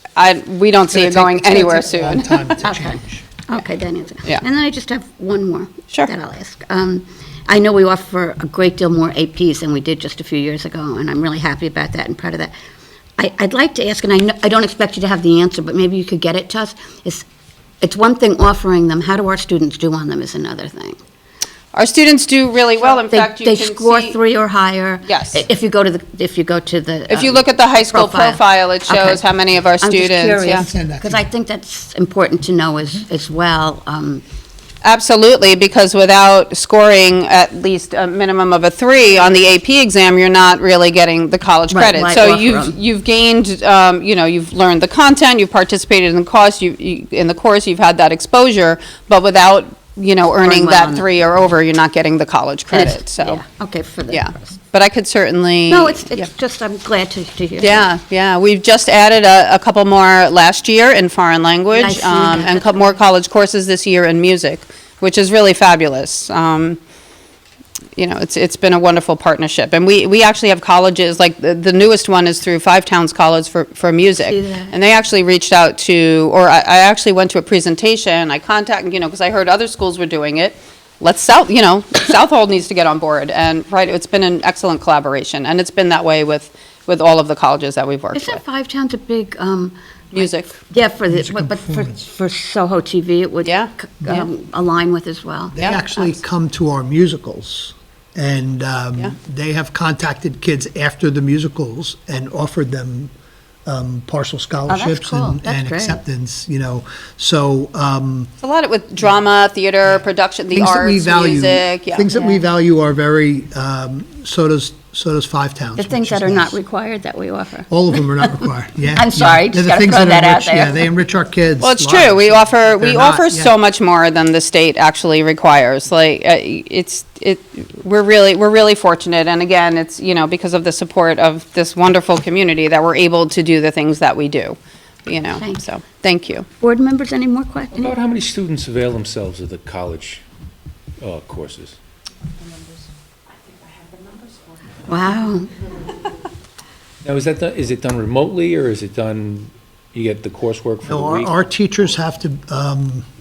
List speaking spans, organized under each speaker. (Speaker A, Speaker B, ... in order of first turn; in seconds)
Speaker A: 0.1-2.6, 21.7-24.1, 25.1-25.4, 27.1-30.7, 34.8-53.4, 54.1-56.2, 57.6-66.8, 68.0-88.4, 90.1-90.5, 93.4-94.3, 108.4-112.1, 121.6-136.5
Speaker B: 0.9-3.3, 30.6-31.2, 91.1-92.0, 95.5-103.1, 103.6-108.3, 110.5-116.6, 117.7-123.5, 150.8-153.1
Speaker C: 2.6-12.5, 13.2-17.2, 17.8-21.0, 22.9-29.2, 29.8-34.2, 41.7-42.8, 50.4-51.1, 52.7-54.6, 55.7-57.9, 61.7-62.9, 74.3-74.7, 88.1-96.1, 104.7-106.0, 112.1-112.4, 115.8-117.7, 118.9-120.8, 135.3-135.6, 136.6-137.9, 144.8-145.5
Speaker D: 137.7-140.2, 141.0-141.8, 147.0-151.3